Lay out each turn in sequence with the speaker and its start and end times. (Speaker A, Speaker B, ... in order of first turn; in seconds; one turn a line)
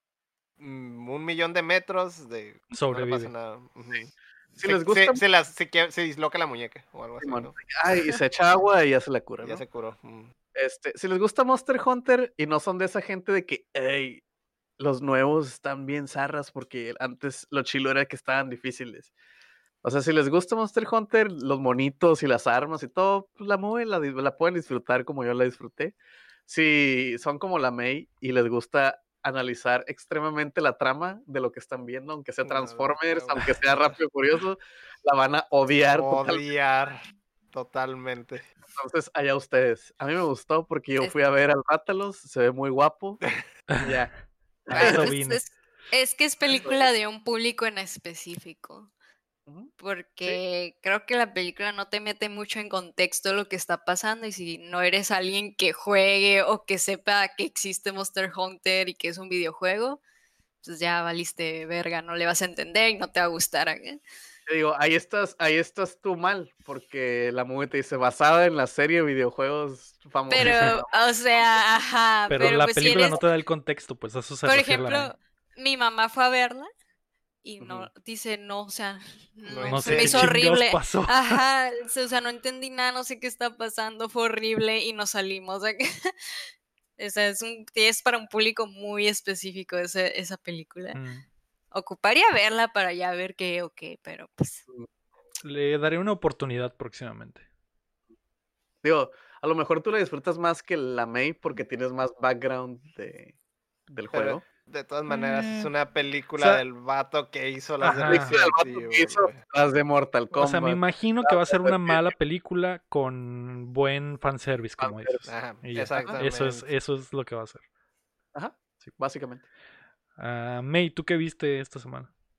Speaker A: 0.6-4.1
Speaker B: 2.7-3.3
Speaker C: 4.6-5.2
Speaker A: 4.7-7.6
Speaker C: 7.2-9.6
Speaker A: 9.4-10.3
Speaker C: 10.6-14.2
Speaker C: 14.8-19.1
Speaker C: 19.8-25.9
Speaker C: 26.5-36.4
Speaker A: 32.4-34.0
Speaker A: 35.9-37.0
Speaker A: 37.5-38.5
Speaker C: 38.8-43.2
Speaker B: 43.7-44.0
Speaker C: 43.8-44.1
Speaker C: 44.7-45.1
Speaker B: 44.7-45.4
Speaker D: 44.7-48.9
Speaker C: 46.5-46.9
Speaker D: 49.8-60.0
Speaker D: 60.6-64.0
Speaker C: 64.5-70.9
Speaker D: 70.3-73.2
Speaker B: 70.4-70.7
Speaker B: 72.3-75.1
Speaker D: 74.4-76.7
Speaker D: 77.4-86.4
Speaker C: 77.6-77.9
Speaker A: 79.5-80.3
Speaker B: 79.7-81.4
Speaker D: 87.0-91.0
Speaker B: 90.9-91.2
Speaker D: 91.7-94.6
Speaker B: 95.4-97.4
Speaker C: 98.8-103.3
Speaker C: 103.9-104.4
Speaker A: 104.1-109.4
Speaker B: 105.1-105.7
Speaker B: 106.4-106.6
Speaker B: 107.8-108.4
Speaker C: 108.0-112.1
Speaker B: 110.4-117.6
Speaker C: 114.8-115.2
Speaker A: 115.3-116.7
Speaker C: 118.3-119.4
Speaker B: 120.2-122.1